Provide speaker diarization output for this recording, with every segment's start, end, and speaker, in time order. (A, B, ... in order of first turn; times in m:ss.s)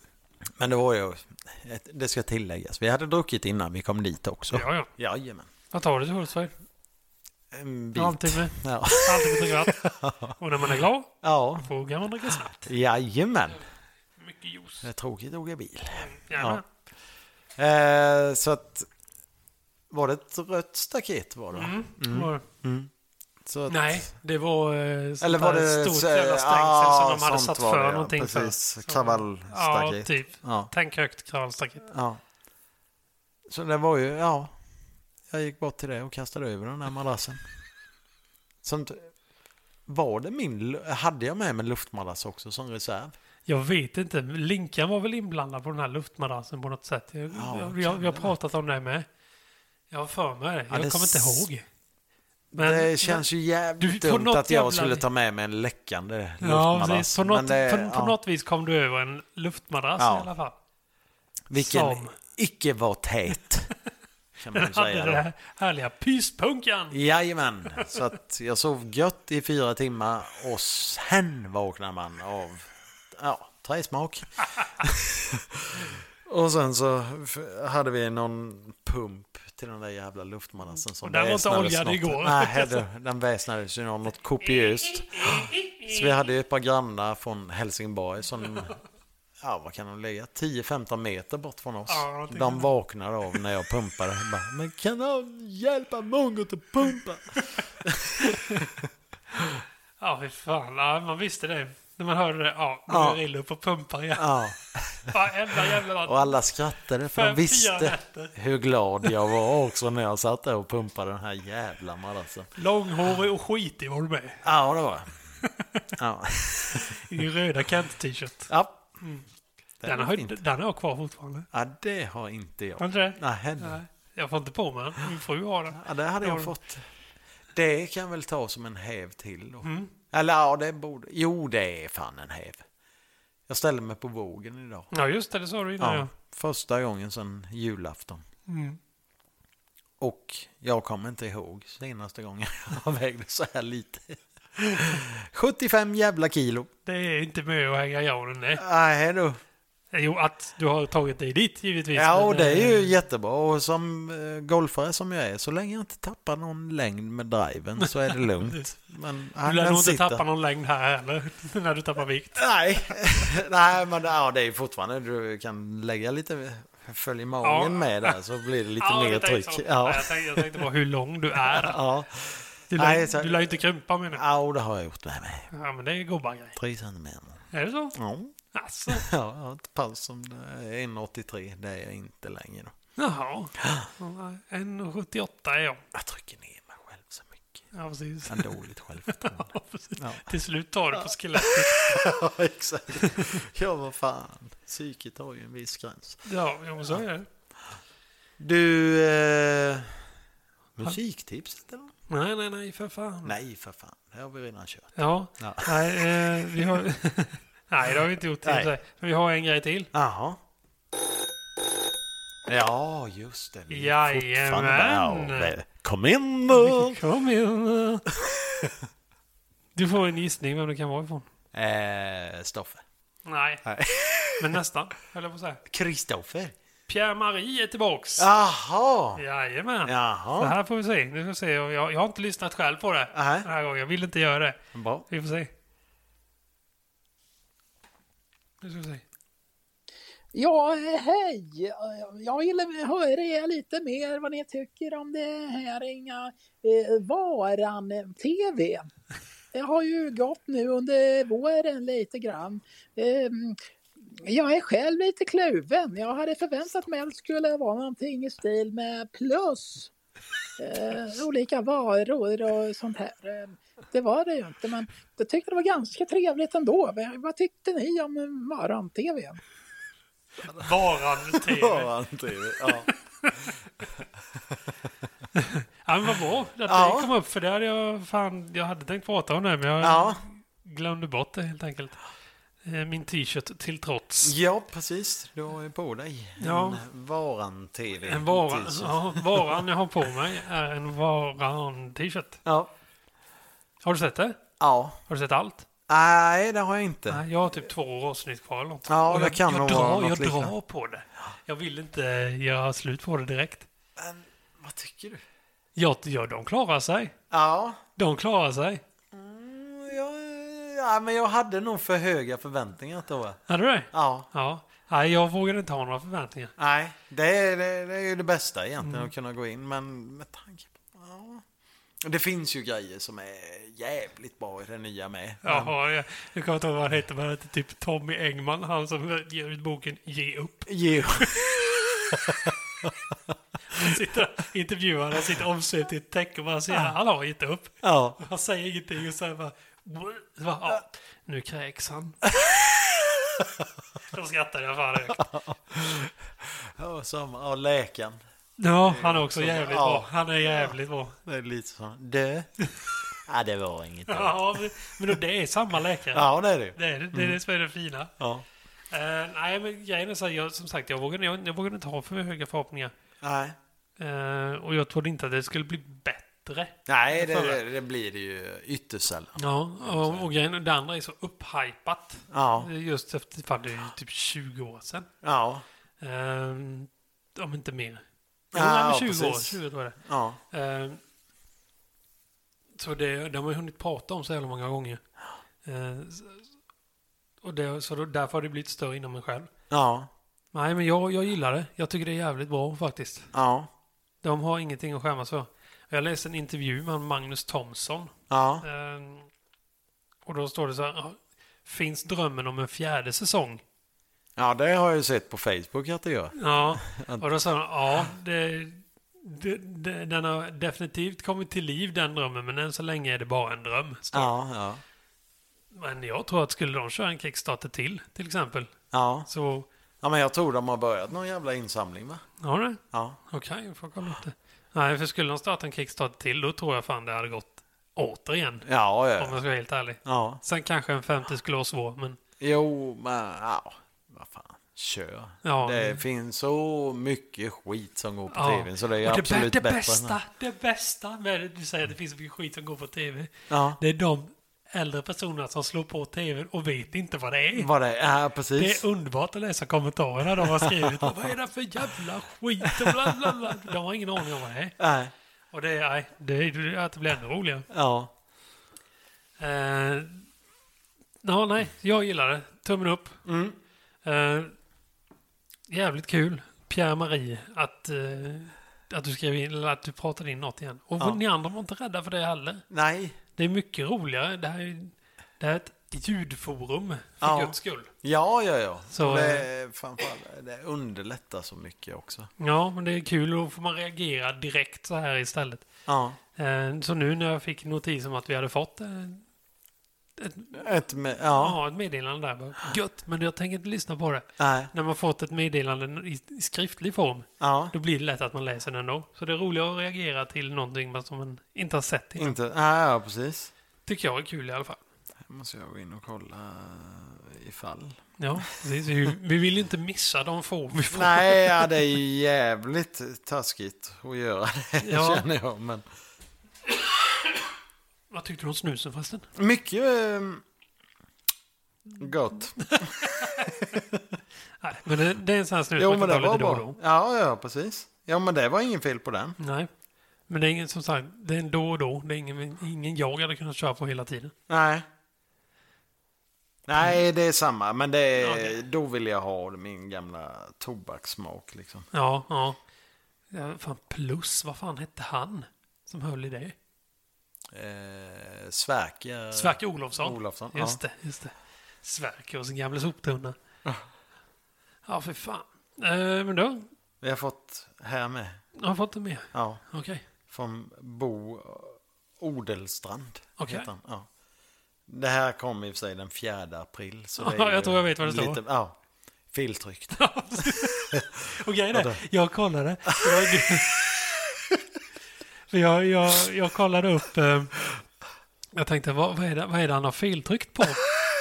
0:00.6-0:05.5 A
0:04.5-0:04.9 B
0:05.7-0:06.5 B
0:07.5-0:10.4 A
0:07.9-0:09.8 B
0:10.3-0:12.7 B
0:11.2-0:11.7 A
0:12.5-0:13.6 A
0:14.2-0:14.9 B
0:14.8-0:16.6 A
0:16.0-0:16.6 B
0:17.6-0:18.9 A
0:19.9-0:22.9 A
0:21.5-0:22.4 B
0:23.4-0:24.1 A
0:23.7-0:31.9 B
0:25.2-0:30.7 A
0:31.8-0:32.2 A
0:33.5-0:34.5 A
0:35.3-0:37.4 A
0:38.6-0:39.1 A
0:39.9-0:43.1 A
0:43.4-0:49.1 B
0:47.3-0:48.3 A
0:49.9-0:51.6 B
0:50.7-0:51.5 A
0:52.5-0:58.2 A
0:52.5-0:53.2 B
0:53.8-0:55.0 B
0:56.4-1:00.5 B
1:00.0-1:00.3 A
1:01.5-1:03.7 A
1:01.5-1:02.1 B
1:04.4-1:05.2 A
1:04.5-1:07.0 B
1:06.9-1:28.8 A
1:21.0-1:22.8 B
1:24.5-1:26.1 B
1:29.4-1:39.6 A
1:31.9-1:32.7 B
1:38.2-1:38.6 B
1:40.0-1:44.5 B
1:42.9-1:43.2 A
1:44.2-1:45.1 A
1:45.1-1:46.4 B
1:46.0-1:52.5 A
1:47.1-1:48.3 B
1:52.6-1:54.4 B
1:54.4-1:55.1 A
1:55.4-1:55.8 B
1:56.0-1:57.0 A
1:56.7-1:59.2 B
1:58.5-1:59.0 A
1:59.8-2:00.4 A
1:59.8-2:01.5 B
2:01.5-2:03.8 A
2:02.8-2:06.5 B
2:05.7-2:06.8 A
2:07.5-2:12.6 A
2:09.6-2:09.9 B
2:13.5-2:14.9 A
2:14.9-2:16.1 B
2:15.8-2:18.2 A
2:18.5-2:18.8 B
2:20.0-2:26.7 A
2:26.8-2:28.6 B
2:28.6-2:29.4 A
2:29.9-2:32.9 B
2:31.9-2:40.2 A
2:39.4-2:42.4 B
2:42.4-2:50.6 A
2:47.4-2:48.2 B
2:48.8-2:51.8 B
2:51.4-2:53.6 A
2:52.7-2:54.2 B
2:54.1-2:55.5 A
2:55.5-2:56.6 B
2:56.6-2:58.3 A
2:57.5-2:58.0 B
2:58.5-2:59.1 B
2:58.9-3:02.7 A
3:03.0-3:05.8 B
3:03.6-3:03.9 A
3:05.9-3:07.6 A
3:07.7-3:12.0 B
3:08.3-3:10.3 A
3:10.9-3:16.2 A
3:13.0-3:13.3 B
3:16.2-3:17.3 B
3:18.4-3:20.0 A
3:20.8-3:21.9 A
3:22.1-3:23.3 B
3:23.2-3:26.2 A
3:25.0-3:29.9 B
3:28.4-3:28.7 A
3:29.9-3:30.4 A
3:32.5-3:37.0 A
3:33.7-3:35.6 B
3:36.5-3:38.1 B
3:38.2-3:38.7 A
3:39.7-3:41.2 B
3:41.5-3:42.8 A
3:43.2-3:43.6 B
3:43.6-3:44.6 A
3:44.4-3:45.6 B
3:45.7-3:46.5 A
3:46.9-3:48.3 B
3:48.2-3:49.2 A
3:49.2-3:55.5 B
3:49.8-3:50.5 A
3:53.1-3:53.5 A
3:54.7-3:55.0 A
3:58.6-3:59.0 B
4:00.3-4:08.8 C
4:09.5-4:13.6 C
4:14.2-4:19.9 C
4:20.6-4:29.4 C
4:30.4-4:30.7 A
4:30.4-4:31.9 B
4:31.3-4:32.9 A
4:32.6-4:33.4 B
4:33.9-4:34.6 A
4:35.3-4:42.0 B
4:36.6-4:37.1 A
4:39.8-4:40.2 A
4:42.6-4:44.4 B
4:44.2-4:49.6 A
4:46.4-4:46.8 B
4:48.0-4:52.4 B
4:52.4-4:52.7 A
4:53.8-4:54.4 B
4:54.6-4:55.0 A
4:55.1-4:55.6 B
4:55.9-4:57.2 A
4:57.1-5:03.7 B
4:58.9-5:00.5 A
5:04.0-5:05.2 A
5:05.8-5:07.1 B
5:07.3-5:07.8 A
5:08.0-5:08.8 B
5:09.1-5:13.4 A
5:13.5-5:16.5 B
5:13.9-5:14.3 A
5:16.6-5:21.4 A
5:18.8-5:19.1 B
5:22.0-5:25.7 A
5:25.4-5:31.4 B
5:30.7-5:32.9 A
5:33.7-5:42.2 B
5:37.8-5:38.2 A
5:42.3-5:43.6 A
5:44.0-5:45.2 B
5:45.2-5:48.2 A
5:48.6-5:51.2 B
5:48.9-5:52.5 A
5:53.2-5:55.1 A
5:54.1-5:58.1 B
5:56.1-5:57.4 A
5:58.2-5:58.4 A
5:58.9-6:02.9 B
6:03.2-6:03.6 A
6:04.0-6:07.6 B
6:06.8-6:10.2 A
6:09.4-6:15.1 B
6:12.3-6:12.7 A
6:15.2-6:15.6 A
6:16.0-6:20.0 B
6:18.5-6:20.4 A
6:20.5-6:21.0 B
6:22.8-6:25.0 B
6:25.6-6:26.5 B
6:27.4-6:29.5 B
6:29.7-6:30.1 A
6:30.5-6:33.3 B
6:33.3-6:33.7 A
6:34.2-6:39.3 B
6:38.3-6:38.6 A
6:40.2-6:43.6 B
6:44.4-6:47.3 A
6:46.3-6:54.3 B
6:54.1-6:54.8 A
6:55.7-6:58.7 B
6:58.9-6:59.3 A
6:59.3-6:59.7 B
7:00.0-7:02.2 A
7:02.4-7:08.6 B
7:02.9-7:03.2 A
7:08.6-7:09.4 A
7:09.2-7:12.2 B
7:10.0-7:10.4 A
7:12.4-7:20.2 A
7:15.4-7:16.0 B
7:18.3-7:27.7 B
7:23.5-7:23.8 A
7:27.6-7:28.8 A
7:28.6-7:34.8 B
7:30.4-7:31.1 A
7:32.8-7:33.1 A
7:34.8-7:35.1 A
7:35.5-7:37.7 B
7:37.7-7:38.1 A
7:39.4-7:40.3 B
7:41.2-7:43.2 B
7:43.2-7:43.6 A
7:44.0-7:44.5 B
7:45.7-7:52.6 B
7:52.7-7:53.2 A
7:53.4-7:57.9 B
7:57.2-8:02.3 A
7:58.9-7:59.5 B
8:02.4-8:05.7 B
8:05.9-8:06.2 A
8:06.4-8:09.2 B
8:10.2-8:10.6 B
8:10.5-8:11.6 A
8:11.3-8:22.4 B
8:14.4-8:14.7 A
8:17.4-8:17.7 A
8:22.2-8:23.5 A
8:23.8-8:24.8 B
8:25.2-8:28.4 A
8:28.2-8:31.7 B
8:30.9-8:35.8 A
8:34.8-8:35.2 B
8:38.1-8:39.3 B
8:39.3-8:40.4 A
8:41.9-8:44.1 A
8:42.6-8:43.5 B
8:44.6-8:46.8 B
8:45.8-8:49.4 A
8:49.4-8:49.7 B
8:50.3-8:54.3 B
8:54.5-8:54.8 A
8:56.7-9:01.9 A
8:58.2-8:58.6 B
9:01.9-9:02.6 B
9:03.3-9:06.5 B
9:07.5-9:10.8 A
9:09.3-9:13.4 B
9:14.8-9:16.7 B
9:17.0-9:18.4 A
9:18.6-9:20.0 B
9:19.3-9:19.6 A
9:20.3-9:24.1 A
9:23.4-9:23.7 B
9:24.9-9:28.8 A
9:27.2-9:28.4 B
9:29.3-9:31.1 A
9:30.0-9:33.8 B
9:31.7-9:32.0 A
9:33.0-9:34.6 A
9:35.5-9:37.6 B
9:38.5-9:40.8 B